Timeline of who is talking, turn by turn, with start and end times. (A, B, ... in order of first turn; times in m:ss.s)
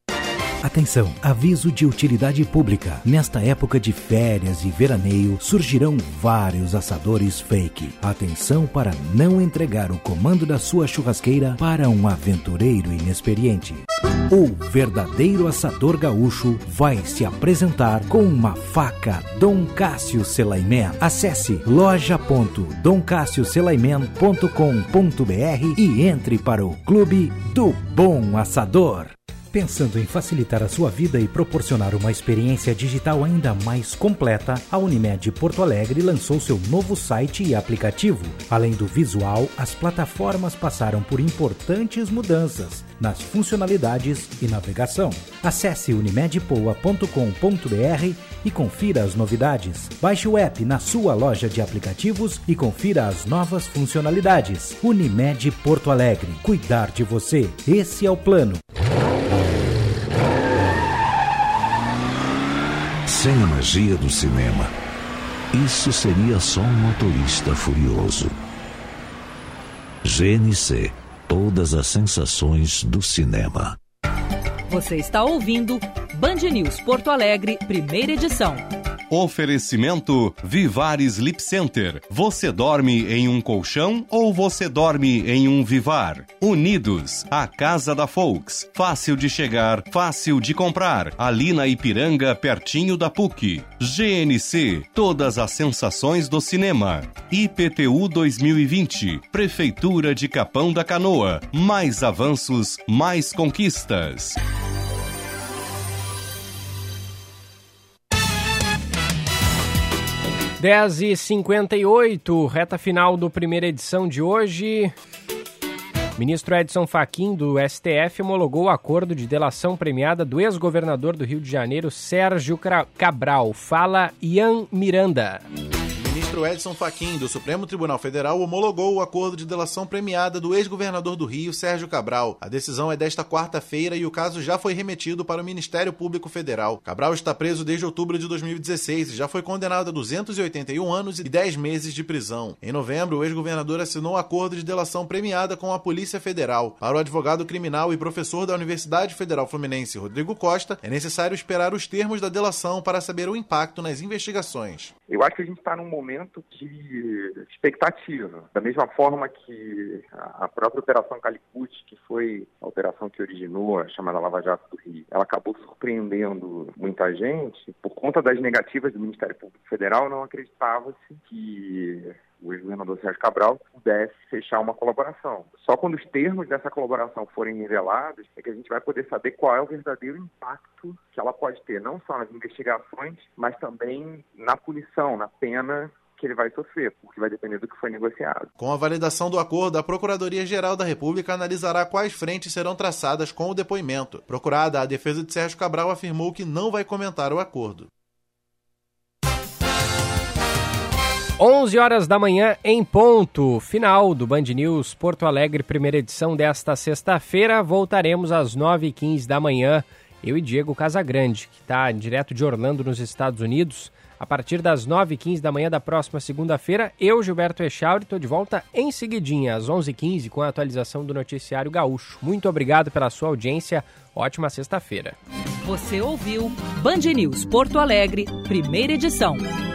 0:00.6-0:58.6 A
1:03.1-1:04.7 B
1:05.5-1:08.3 B
1:10.0-1:13.8 B
1:14.7-1:18.6 C
1:19.1-1:44.4 D
1:50.6-1:54.9 E
1:56.2-2:05.4 E
2:06.0-2:34.9 F
2:35.1-3:08.5 G
3:08.6-3:17.9 F
3:21.4-3:45.2 E
3:45.6-3:49.5 C